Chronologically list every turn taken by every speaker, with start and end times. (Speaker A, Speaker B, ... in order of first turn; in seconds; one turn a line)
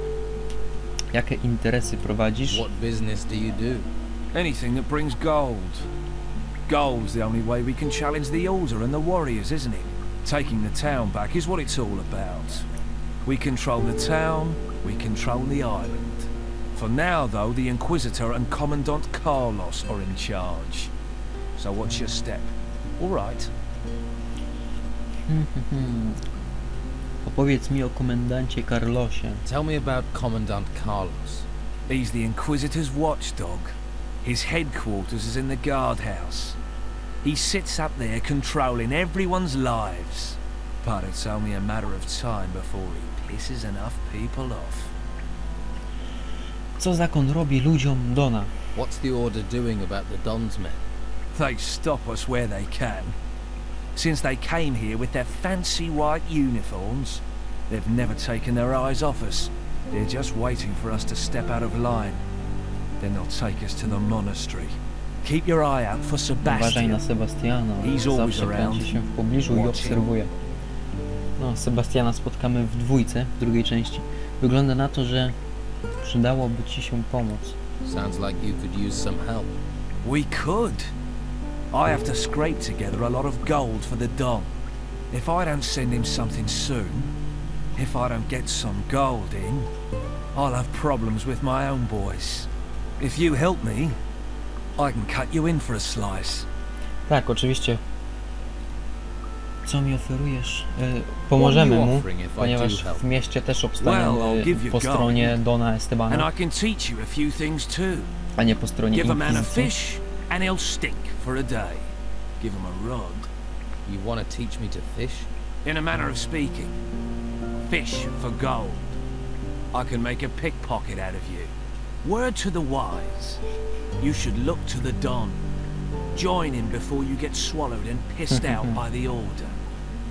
Speaker A: 1.1-2.6
Speaker B: 2.5-3.9
Speaker C: 4.3-5.9
Speaker C: 6.7-12.7
Speaker C: 13.2-20.9
Speaker C: 21.6-23.5
Speaker A: 25.3-26.2
Speaker A: 27.2-29.4
Speaker B: 29.5-31.5
Speaker C: 31.9-36.6
Speaker C: 37.2-44.9
Speaker A: 46.8-48.5
Speaker B: 48.8-50.8
Speaker C: 51.3-53.1
Speaker C: 54.0-62.2
Speaker C: 63.0-67.0
Speaker A: 66.4-70.3
Speaker C: 67.8-68.9
Speaker C: 69.5-70.0
Speaker A: 71.4-75.3
Speaker A: 76.0-77.6
Speaker B: 77.8-79.5
Speaker C: 80.0-80.9
Speaker C: 81.7-84.5
Speaker C: 85.1-87.1
Speaker C: 87.8-89.7
Speaker C: 90.3-92.5
Speaker C: 93.0-94.0
Speaker C: 94.8-96.5
Speaker A: 97.1-97.8
Speaker A: 99.7-106.3
Speaker B: 101.3-103.0
Speaker C: 103.8-105.4
Speaker C: 106.1-108.1
Speaker A: 108.4-109.7
Speaker C: 108.9-113.3
Speaker B: 113.9-115.3
Speaker C: 115.7-116.8
Speaker C: 117.6-119.0
Speaker C: 119.7-121.5
Speaker C: 122.0-123.4
Speaker C: 124.0-125.4
Speaker C: 126.2-129.6
Speaker A: 128.3-128.8